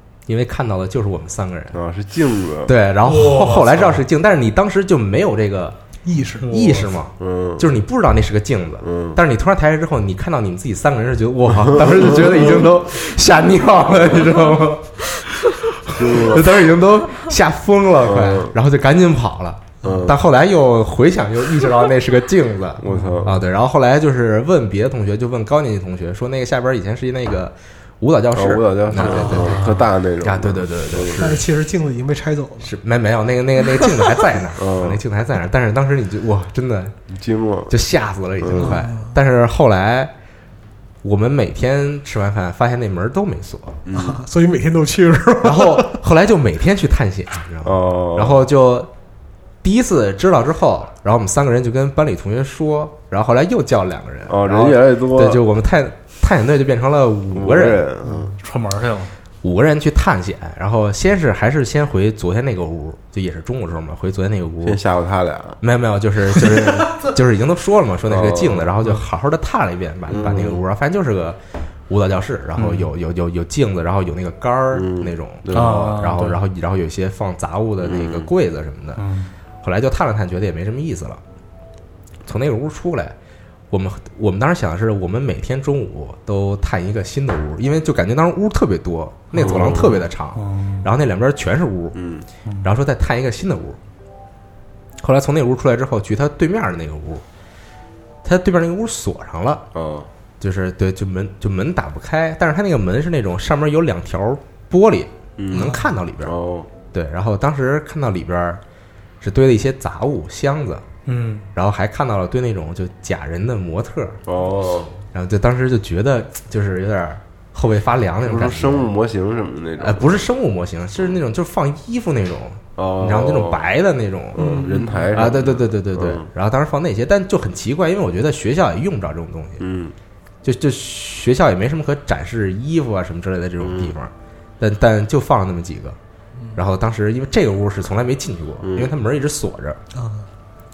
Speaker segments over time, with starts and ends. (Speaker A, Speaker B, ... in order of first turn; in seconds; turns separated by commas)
Speaker A: 0.3-1.8, Speaker B: 1.7-2.7, Speaker A: 2.6-5.8, Speaker C: 3.0-4.0, Speaker D: 6.0-6.5, Speaker C: 6.4-6.9, Speaker A: 6.5-29.6, Speaker B: 7.2-7.8, Speaker B: 8.8-9.2, Speaker B: 12.0-12.4, Speaker B: 15.9-16.6, Speaker B: 18.0-18.5, Speaker B: 19.8-20.2, Speaker B: 22.8-23.4, Speaker C: 22.9-23.2, Speaker B: 28.3-31.4, Speaker C: 29.0-29.9, Speaker A: 30.2-31.4, Speaker D: 31.2-32.7, Speaker A: 32.6-37.0, Speaker B: 34.5-35.0, Speaker B: 37.1-37.7, Speaker A: 37.7-40.1, Speaker B: 38.4-38.8, Speaker D: 38.6-39.1, Speaker A: 41.0-43.8, Speaker B: 43.8-44.2, Speaker D: 43.9-46.0, Speaker A: 45.4-48.9, Speaker B: 47.6-48.4, Speaker A: 49.6-57.8, Speaker B: 54.3-55.4, Speaker B: 57.3-58.3, Speaker C: 58.2-59.1, Speaker A: 59.4-64.8, Speaker B: 64.6-65.6, Speaker A: 65.6-79.0, Speaker C: 66.6-67.1, Speaker B: 68.1-68.7, Speaker B: 70.1-70.6, Speaker C: 72.5-72.9, Speaker B: 74.7-75.9, Speaker C: 75.5-76.4, Speaker B: 77.8-78.3, Speaker C: 79.0-79.3, Speaker A: 79.6-81.2, Speaker A: 82.2-83.2, Speaker A: 83.7-92.0, Speaker C: 89.3-90.9, Speaker B: 89.4-90.0, Speaker B: 91.9-92.2, Speaker A: 92.6-93.8, Speaker A: 95.0-97.2, Speaker A: 98.2-99.6, Speaker B: 99.7-100.1, Speaker A: 100.4-106.3, Speaker B: 105.4-106.7, Speaker A: 106.9-108.6, Speaker A: 109.2-110.8, Speaker C: 111.0-111.5, Speaker A: 111.5-114.2, Speaker B: 114.3-115.0, Speaker A: 115.1-118.9, Speaker B: 118.2-120.2, Speaker A: 119.8-124.5, Speaker B: 122.8-123.7, Speaker B: 124.3-126.3, Speaker D: 124.3-125.0, Speaker A: 125.1-129.6, Speaker B: 129.6-129.9, Speaker A: 130.4-136.0, Speaker B: 133.6-133.9, Speaker A: 136.5-139.8, Speaker B: 138.6-138.9, Speaker D: 139.9-140.3